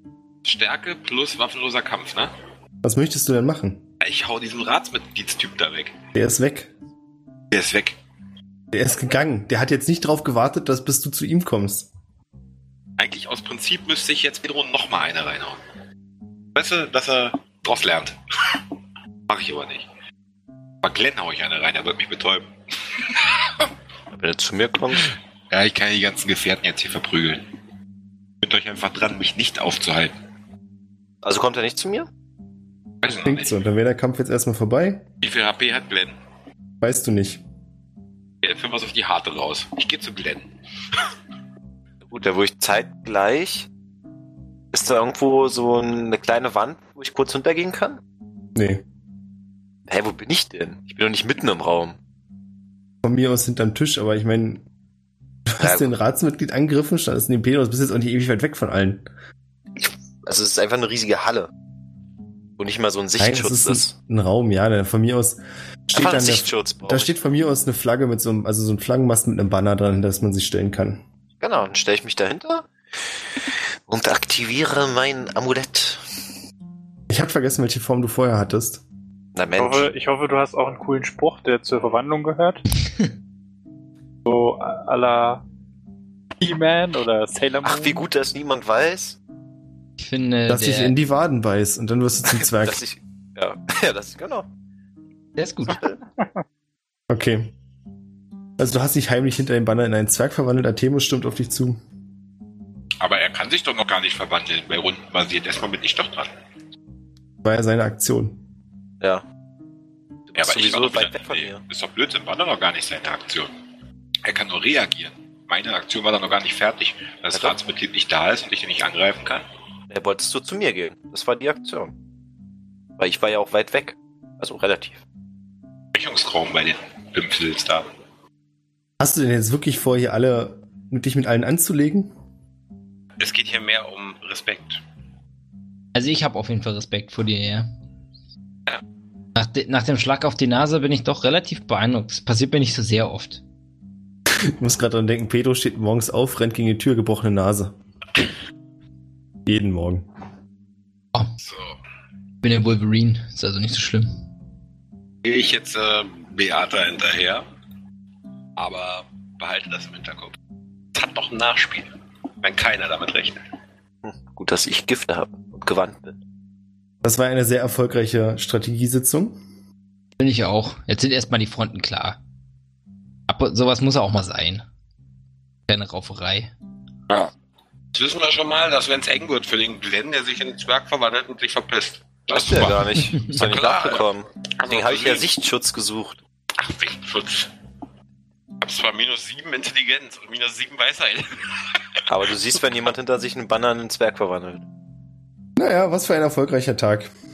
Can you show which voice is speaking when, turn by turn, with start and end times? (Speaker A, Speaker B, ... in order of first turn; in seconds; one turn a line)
Speaker A: 0.4-2.3
Speaker B: 2.8-3.8
Speaker A: 4.0-6.0
Speaker B: 6.2-6.7
Speaker A: 7.5-8.0
Speaker B: 8.7-11.9
Speaker A: 13.0-15.6
Speaker A: 16.6-18.6
Speaker A: 19.3-19.9
Speaker A: 20.8-23.7
Speaker C: 24.1-25.1
Speaker A: 25.5-27.5
Speaker A: 28.4-30.1
Speaker C: 31.2-32.1
Speaker A: 33.0-33.5
Speaker B: 33.2-35.1
Speaker A: 35.2-36.1
Speaker B: 36.8-37.4
Speaker A: 38.4-40.5
Speaker C: 42.1-43.7
Speaker C: 44.7-48.0
Speaker B: 48.5-48.8
Speaker C: 49.9-52.0
Speaker B: 53.0-54.6
Speaker B: 55.5-59.0
Speaker C: 55.6-55.9
Speaker C: 59.8-61.5
Speaker C: 62.6-63.9
Speaker B: 63.2-71.0
Speaker C: 66.0-67.2
Speaker C: 71.4-72.7
Speaker C: 73.9-76.0
Speaker B: 77.1-78.8
Speaker C: 79.3-79.9
Speaker D: 79.6-82.6
Speaker D: 84.2-85.4
Speaker D: 86.4-88.0
Speaker C: 87.6-89.2
Speaker E: 90.0-91.0
Speaker B: 90.5-92.8
Speaker C: 92.3-94.5
Speaker E: 95.4-95.8
Speaker C: 95.7-96.0
Speaker B: 97.1-97.5
Speaker B: 98.6-101.8
Speaker A: 103.0-106.3
Speaker B: 107.4-108.4
Speaker C: 110.3-111.6
Speaker A: 110.3-113.5
Speaker A: 114.2-119.5
Speaker C: 119.9-121.9
Speaker C: 123.0-125.0
Speaker A: 125.9-127.9
Speaker B: 129.0-132.1
Speaker A: 133.2-134.8
Speaker E: 135.9-137.7
Speaker E: 139.3-143.4
Speaker B: 144.4-147.7
Speaker B: 149.5-150.1
Speaker A: 151.4-151.8
Speaker E: 152.4-154.2
Speaker A: 155.2-157.4
Speaker A: 158.6-160.4
Speaker A: 160.9-161.9
Speaker A: 162.4-163.4
Speaker C: 164.0-166.2
Speaker B: 167.0-169.4
Speaker E: 170.2-172.2
Speaker E: 173.3-174.7
Speaker E: 175.7-176.5
Speaker A: 177.9-184.1
Speaker C: 182.3-186.2
Speaker A: 184.6-185.3
Speaker A: 186.6-187.5
Speaker A: 188.6-191.7
Speaker C: 192.1-194.6
Speaker B: 195.6-197.1